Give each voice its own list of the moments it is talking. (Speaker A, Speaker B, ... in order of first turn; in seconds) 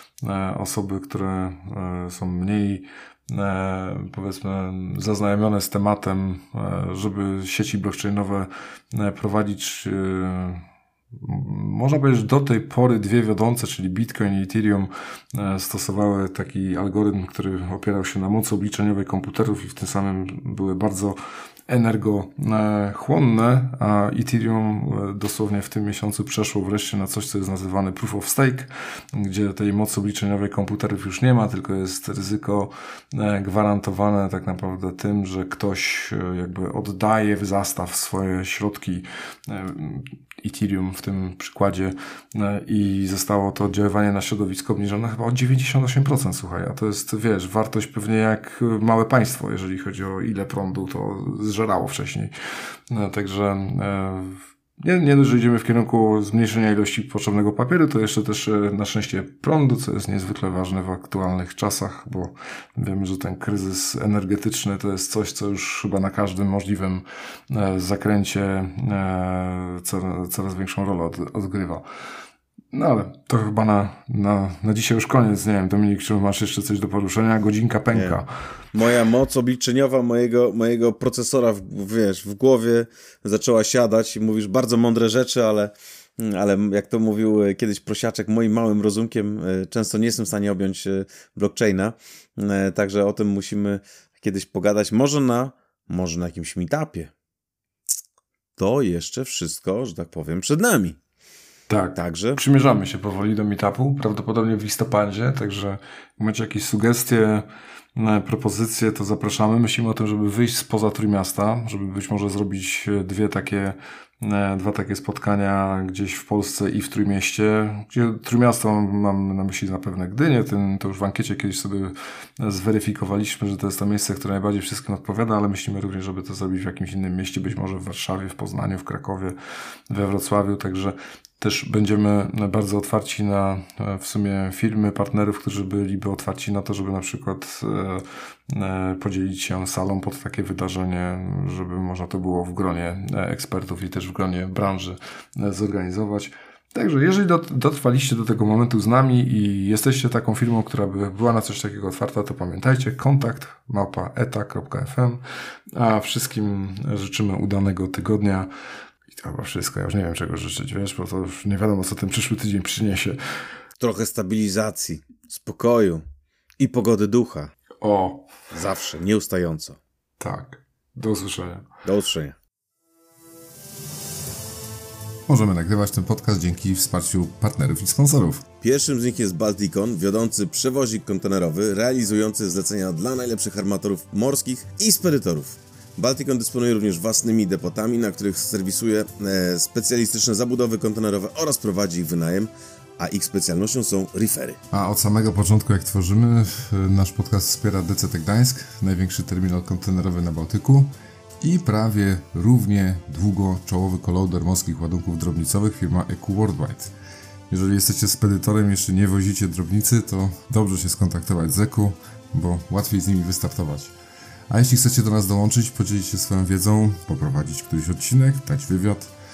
Speaker A: 0.2-10.6, 11.2-52.3, 52.9-71.8, 72.7-78.3, 101.7-129.3, 129.9-155.2, 155.8-158.5, 159.1-163.2, 167.8-168.3, 170.2-171.7
Speaker B: 77.9-78.2, 78.7-97.1, 98.6-101.0, 102.0-102.4, 163.8-166.0, 166.6-167.5, 168.5-169.8, 171.8-172.4, 178.6-194.6
Speaker C: 175.3-178.4, 194.7-206.9, 207.5-213.9, 214.5-219.1